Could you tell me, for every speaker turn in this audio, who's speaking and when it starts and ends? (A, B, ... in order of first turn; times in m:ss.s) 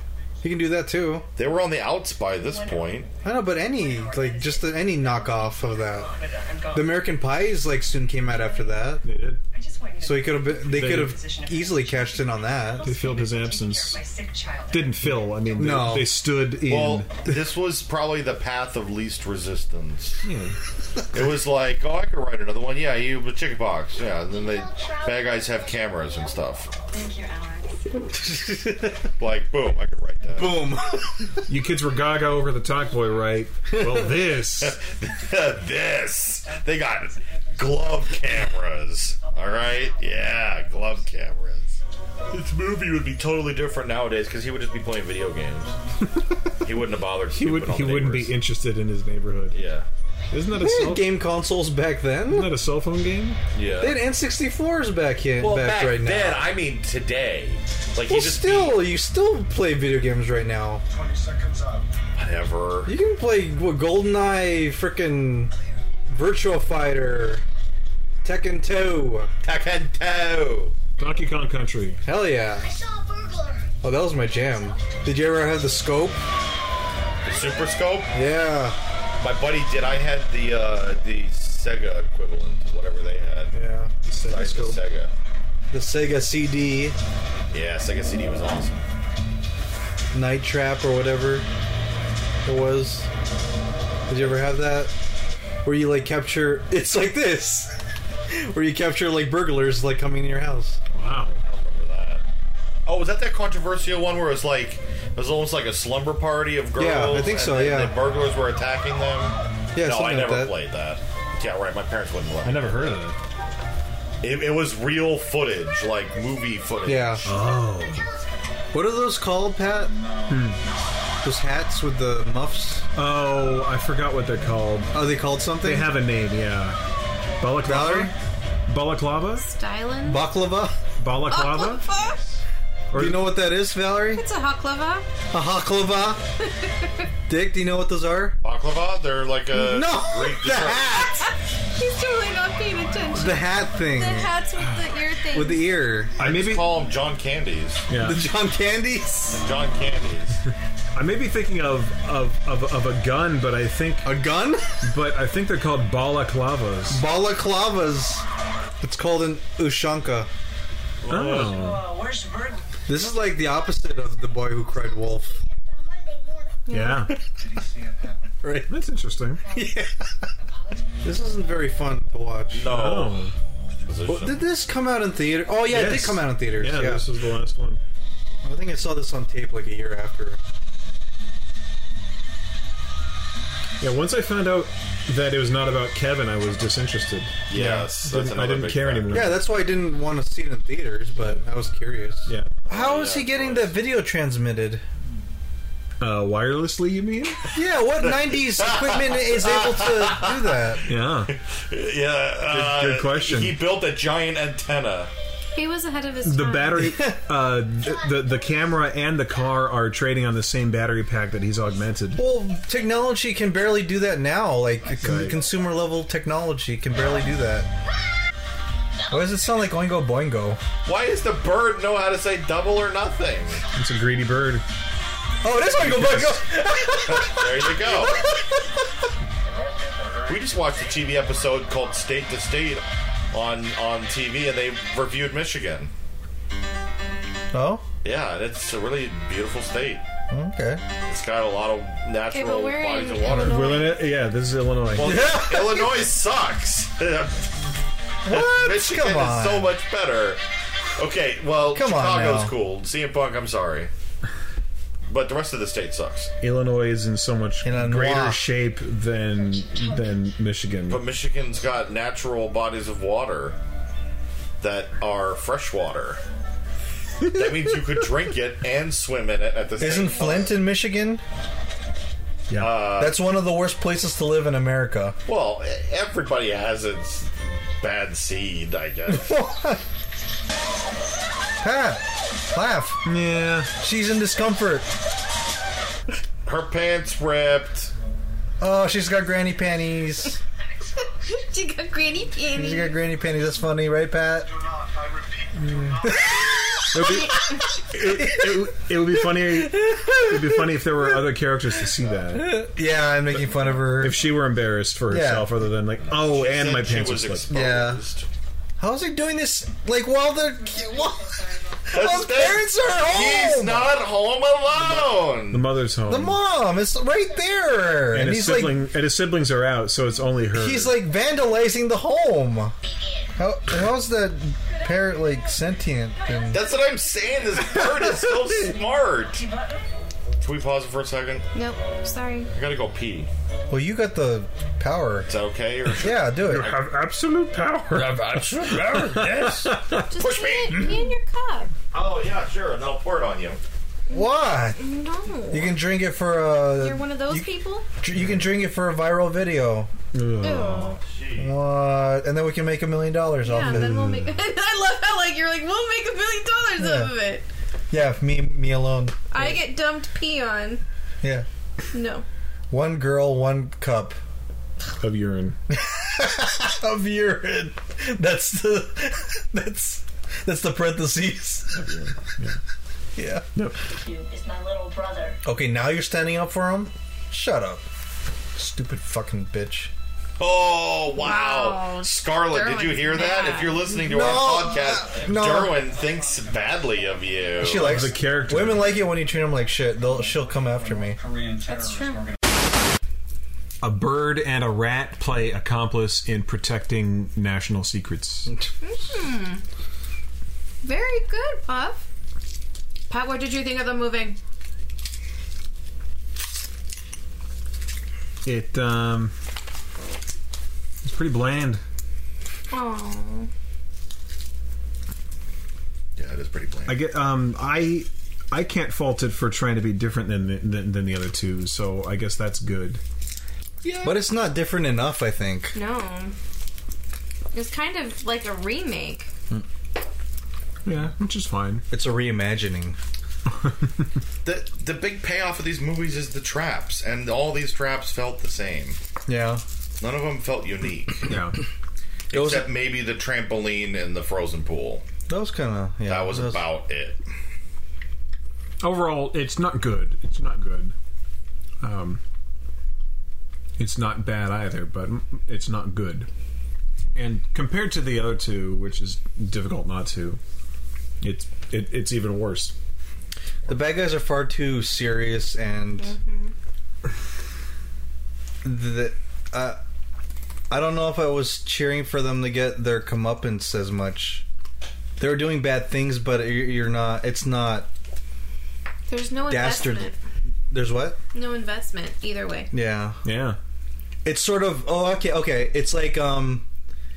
0:00.4-0:01.3 A
0:01.4-0:03.1 B
0:02.4-0:15.8 C
0:03.2-0:06.1 A
0:06.7-0:09.0 A
0:09.0-0:09.4 D
0:10.0-0:13.0 A
0:10.7-0:11.2 D
0:12.8-0:14.0 D
0:14.7-0:17.1 D
0:15.6-0:16.2 A
0:16.6-0:20.2 B
0:20.2-0:20.6 D
0:21.1-0:26.7 B
0:26.8-0:28.1 C
0:28.1-0:29.1 A
0:29.2-0:30.7 B
0:30.3-0:31.4 A
0:31.5-0:34.8 D
0:33.7-0:34.2 A
0:34.6-0:41.8 B
0:36.0-0:38.3 C
0:39.2-0:41.2 C
0:42.3-0:45.7 B
0:46.0-0:46.4 D
0:46.6-0:48.4 B
0:47.4-0:49.6 D
0:49.5-0:49.9 B
0:50.3-0:51.2 D
0:50.5-0:52.5 A
0:52.3-0:53.4 D
0:53.5-0:54.0 B
0:53.8-0:56.5 A
0:55.4-0:58.8 B
0:58.1-1:00.8 A
1:02.2-1:02.9 B
1:02.9-1:05.5 A
1:06.1-1:07.4 A
1:08.2-1:09.3 A
1:09.4-1:10.8 B
1:11.0-1:12.0 D
1:12.0-1:12.7 A
1:13.8-1:16.2 A
1:17.3-1:18.1 B
1:18.1-1:18.8 A
1:19.2-1:23.5 B
1:23.5-1:23.9 A
1:24.0-1:24.8 D
1:24.2-1:25.1 B
1:25.7-1:27.0 A
1:27.5-1:28.8 B
1:30.1-1:31.5 A
1:32.5-1:33.1 A
1:34.1-1:34.9 A
1:34.2-1:34.5 B
1:35.6-1:40.8 A
1:40.9-1:41.4 D
1:41.4-1:42.2 B
1:42.9-1:53.0 B
1:46.8-1:48.0 A
1:49.8-1:50.6 A
1:52.4-1:53.2 D
1:54.2-1:57.4 B
1:56.8-1:57.3 A
1:57.2-1:58.1 D
1:58.7-2:00.0 A
2:00.3-2:00.6 D
2:01.2-2:02.8 A
2:03.0-2:05.0 D
2:04.9-2:06.0 A
2:05.6-2:06.8 D
2:07.4-2:08.1 D
2:07.6-2:08.1 A
2:08.7-2:09.4 D
2:09.4-2:10.3 E
2:10.1-2:10.8 A
2:11.0-2:11.9 D
2:11.3-2:12.3 E
2:12.9-2:13.3 D
2:12.9-2:14.2 A
2:14.1-2:15.1 E
2:15.3-2:16.2 A
2:16.4-2:17.1 E
2:17.3-2:18.4 A
2:18.4-2:21.2 B
2:19.5-2:21.3 A
2:21.1-2:25.8 E
2:23.1-2:24.3 A
2:25.3-2:26.2 A
2:26.2-2:26.7 D
2:26.2-2:27.8 B
2:27.9-2:28.3 D
2:27.9-2:29.4 A
2:29.3-2:30.4 B
2:30.9-2:34.2 D
2:34.0-2:34.7 A
2:34.8-2:37.0 D
2:36.9-2:38.2 A
2:38.8-2:40.3 A
2:41.0-2:41.4 B
2:41.1-2:41.9 D
2:41.1-2:42.8 C
2:42.9-2:45.4 A
2:46.7-2:47.1 E
2:46.7-2:47.2 D
2:48.4-2:48.7 A
2:48.7-2:49.4 D
2:49.5-2:50.1 A
2:50.4-2:50.9 C
2:51.0-2:52.8 A
2:52.5-2:53.3 B
2:52.7-2:53.3 D
2:53.9-2:54.4 B
2:54.1-2:57.1 A
2:55.7-2:57.8 D
2:58.4-3:00.4 A
3:03.8-3:09.4 D
3:07.5-3:09.4 B
3:09.1-3:14.8 A
3:12.3-3:12.6 D
3:12.7-3:13.8 B
3:16.0-3:17.4 D
3:17.5-3:20.9 A
3:18.4-3:20.8 B
3:20.9-3:21.3 D
3:21.3-3:25.1 B
3:22.5-3:23.6 D
3:25.6-3:26.9 E
3:26.2-3:32.2 D
3:26.8-3:27.2 A
3:32.2-3:37.7 A
3:35.0-3:35.4 D
3:39.1-3:40.6 A
3:40.9-3:43.6 B
3:43.7-3:44.6 D
3:45.4-3:48.9 A
3:45.8-3:46.4 D
3:47.1-3:48.2 B
3:50.3-3:55.9 B
3:57.5-3:57.8 A
3:58.0-4:00.0 B
4:00.3-4:00.8 A
4:01.1-4:03.8 B
4:02.3-4:04.0 E
4:03.3-4:05.4 D
4:04.9-4:07.5 B
4:05.0-4:06.0 A
4:08.2-4:09.7 A
4:08.3-4:10.4 B
4:11.0-4:13.9 B
4:11.7-4:12.6 A
4:15.1-4:16.3 B
4:16.4-4:21.0 D
4:17.6-4:18.5 A
4:20.9-4:23.6 B
4:24.6-4:26.2 B
4:27.3-4:30.6 B
4:29.8-4:31.2 A
4:32.6-4:33.2 B
4:32.6-4:35.2 A
4:35.3-4:39.5 B
4:39.1-4:39.8 A
4:41.6-4:43.0 A
4:43.0-4:43.7 D
4:43.8-4:44.9 A
4:46.4-4:47.9 B
4:48.6-4:50.4 A
4:51.2-4:53.1 E
4:52.5-4:54.5 A
4:55.6-4:56.0 D
4:56.0-5:01.3 A
4:56.9-5:02.6 D
5:02.3-5:04.2 A
5:03.5-5:07.7 D
5:05.1-5:05.5 A
5:06.1-5:08.3 B
5:07.5-5:08.0 A
5:08.8-5:14.0 A
5:11.9-5:15.8 B
5:15.5-5:16.4 D
5:16.1-5:18.9 A
5:18.1-5:21.0 D
5:20.5-5:22.8 A
5:23.4-5:26.6 A
5:26.5-5:29.4 B
5:29.3-5:29.8 C
5:30.4-5:31.5 B
5:31.5-5:32.5 E
5:32.5-5:33.3 B
5:33.7-5:35.3 A
5:35.3-5:36.8 B
5:36.0-5:36.8 A
5:36.4-5:40.2 D
5:37.9-5:41.0 B
5:40.1-5:41.7 E
5:41.9-5:43.6 B
5:44.1-5:45.8 E
5:44.1-5:44.8 A
5:45.5-5:49.9 A
5:46.8-5:47.9 E
5:50.1-5:51.0 D
5:50.4-5:51.0 E
5:50.8-5:51.5 B
5:51.4-5:54.3 A
5:53.4-5:57.5 E
5:56.8-5:57.2 A
5:57.9-5:59.2 A
5:59.3-6:00.8 E
6:01.2-6:01.5 A
6:01.9-6:02.2 E
6:02.7-6:04.2 A
6:05.0-6:05.6 D
6:05.7-6:12.0 A
6:11.7-6:12.6 D
6:13.2-6:13.5 A
6:13.6-6:13.9 D
6:14.0-6:15.4 C
6:15.4-6:17.8 A
6:18.6-6:19.9 A
6:20.4-6:28.1 B
6:21.2-6:24.0 E
6:23.9-6:25.8 A
6:27.6-6:31.2 A
6:27.6-6:29.1 D
6:31.6-6:32.3 E
6:33.8-6:38.5 D
6:38.8-6:39.6 E
6:40.8-6:42.1 E
6:43.1-6:44.4 E
6:48.4-6:49.3 D
6:51.0-6:51.8 D
6:52.7-6:53.5 E
6:56.2-6:57.0 B
6:56.9-7:03.0 D
7:03.8-7:04.2 B
7:04.0-7:05.8 A
7:05.7-7:06.4 E
7:07.5-7:09.3 E
7:10.8-7:11.8 D
7:11.9-7:13.0 A
7:14.4-7:19.0 B
7:19.3-7:19.6 A
7:20.0-7:21.3 B
7:21.3-7:21.6 D
7:22.3-7:25.0 B
7:22.3-7:22.7 A
7:25.3-7:26.6 A
7:26.1-7:27.2 B
7:28.8-7:30.9 D
7:31.8-7:32.2 D
7:33.8-7:36.3 D
7:37.2-7:40.4 D
7:41.2-7:42.8 D
7:43.7-7:46.1 A
7:46.0-7:46.5 E
7:48.6-7:49.8 A
7:50.7-7:54.4 A
7:55.2-7:57.9 A
7:59.1-8:00.2 E
7:59.5-8:00.1 A
8:00.7-8:01.2 A
8:01.3-8:02.7 E
8:02.7-8:03.2 A
8:03.2-8:03.6 D
8:04.2-8:06.7 A